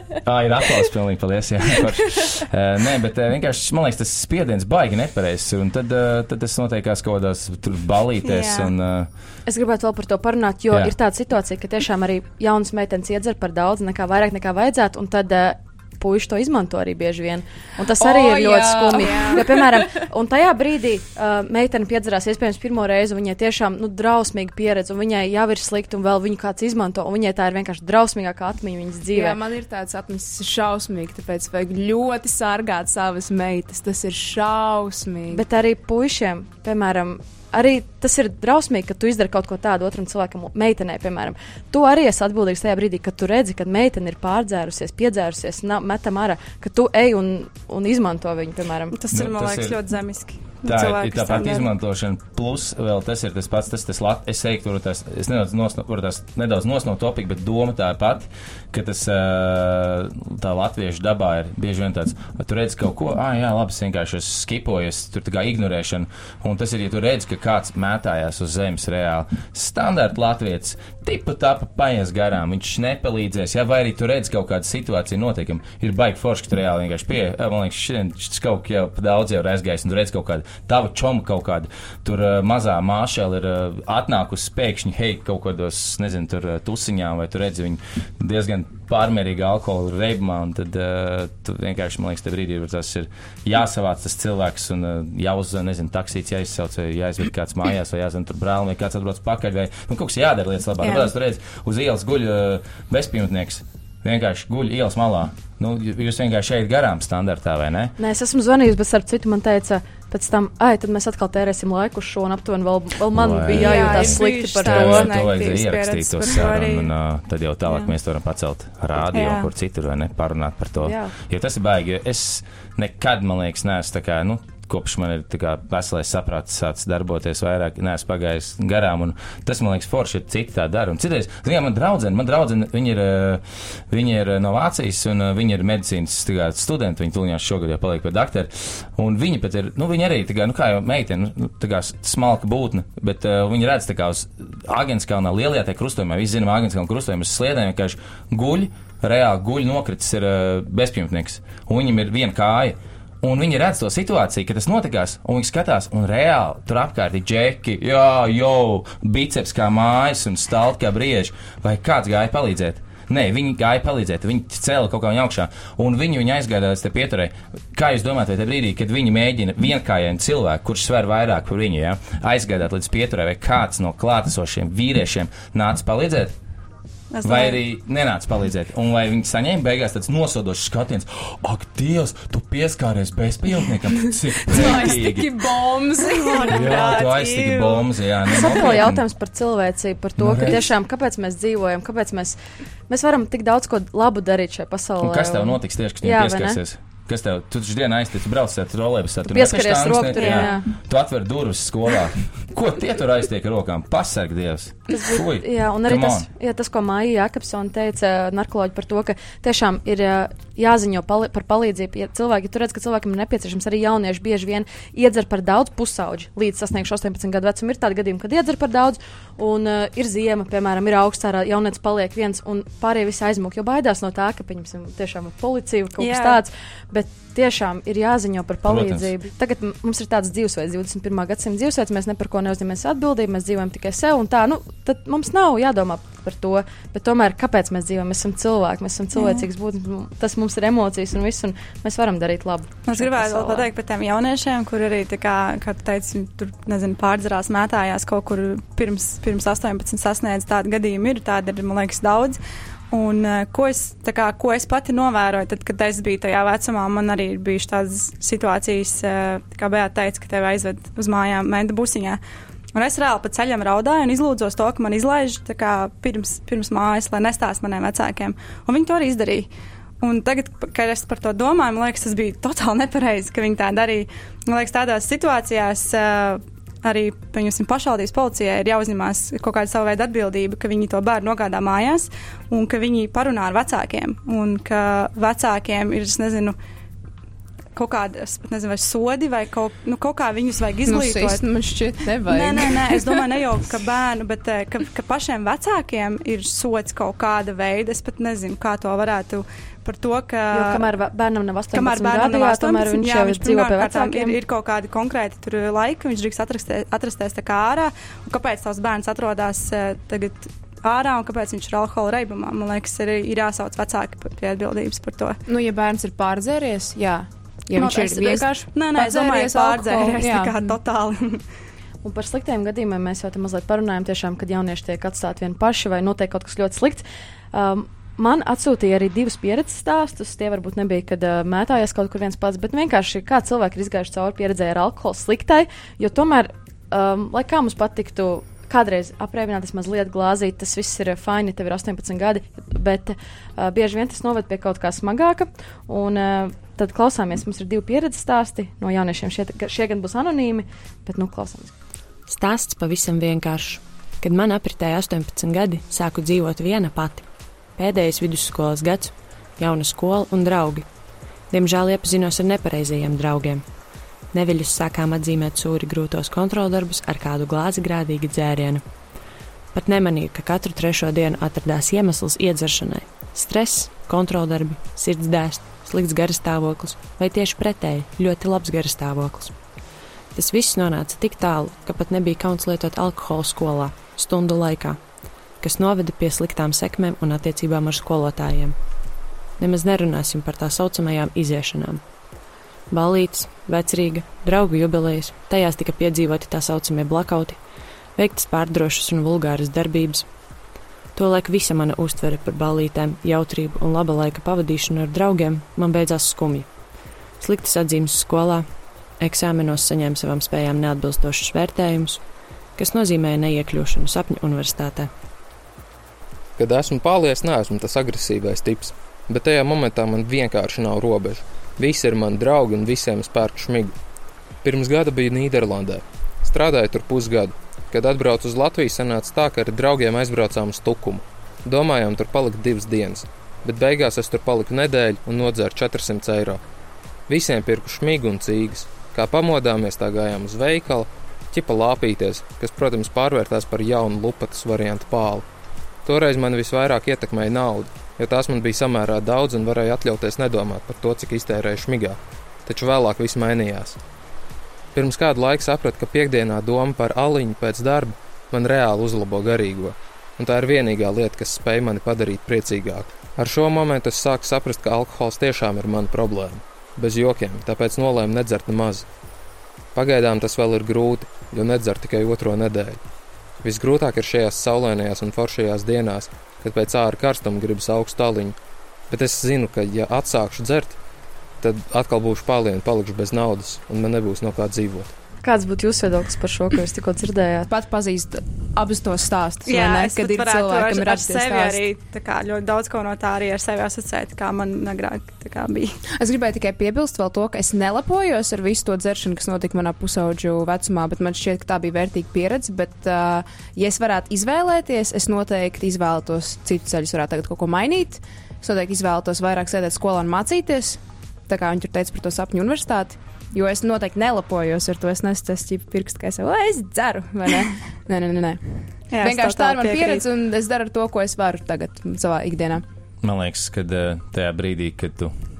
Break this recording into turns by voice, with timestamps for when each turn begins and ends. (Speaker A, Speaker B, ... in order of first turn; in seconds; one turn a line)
Speaker A: 0.2-9.1
Speaker B: 8.2-8.7
Speaker C: 9.5-29.4
Speaker D: 18.0-20.1
Speaker D: 29.1-35.4
Speaker C: 35.3-49.0
Speaker B: 48.9-51.7
Speaker A: 49.1-49.8
Speaker A: 50.6-107.9
Speaker C: 108.0-115.1
Speaker A: 113.1-176.3
Speaker B: 113.5-116.9
Speaker B: 119.1-119.5
Speaker C: 120.8-121.1
Speaker B: 177.1-177.6
Speaker A: 177.2-185.3
Speaker D: 184.1-186.9
Speaker B: 186.2-187.9
Speaker A: 186.5-189.0
Speaker C: 188.3-196.6
Speaker A: 190.2-190.7
Speaker A: 195.0-206.3
Speaker C: 199.3-200.6
Speaker B: 200.2-200.5
Speaker C: 204.9-243.7
Speaker B: 226.0-226.4
Speaker A: 228.7-229.1
Speaker B: 239.2-239.4
Speaker B: 242.9-252.4
Speaker B: 252.9-262.2
Speaker B: 262.7-269.5
Speaker B: 270.0-286.6
Speaker B: 287.7-291.4
Speaker D: 290.9-293.3
Speaker B: 292.3-300.8
Speaker C: 300.5-304.4
Speaker B: 301.7-315.4
Speaker D: 315.5-320.6
Speaker B: 317.7-321.4
Speaker C: 322.0-351.7
Speaker E: 352.3-360.9
Speaker E: 361.5-363.6
Speaker E: 364.3-368.8
Speaker E: 369.7-379.6
Speaker E: 380.3-385.0
Speaker E: 385.6-388.8
Speaker E: 389.6-392.0
Speaker E: 392.9-397.6
Speaker E: 398.1-400.3
Speaker E: 401.1-406.7
Speaker E: 407.4-408.7
Speaker E: 409.2-412.2
Speaker E: 412.8-415.1
Speaker F: 416.6-423.9
Speaker F: 424.6-436.6
Speaker F: 437.3-445.4
Speaker F: 446.0-454.0
Speaker F: 454.9-469.1
Speaker F: 469.9-473.0
Speaker F: 473.6-478.6
Speaker F: 479.1-481.0
Speaker F: 481.6-485.1
Speaker C: 485.4-487.7
Speaker D: 487.7-491.8
Speaker B: 489.6-496.0
Speaker D: 496.2-522.8
Speaker B: 519.1-520.2
Speaker A: 523.2-525.3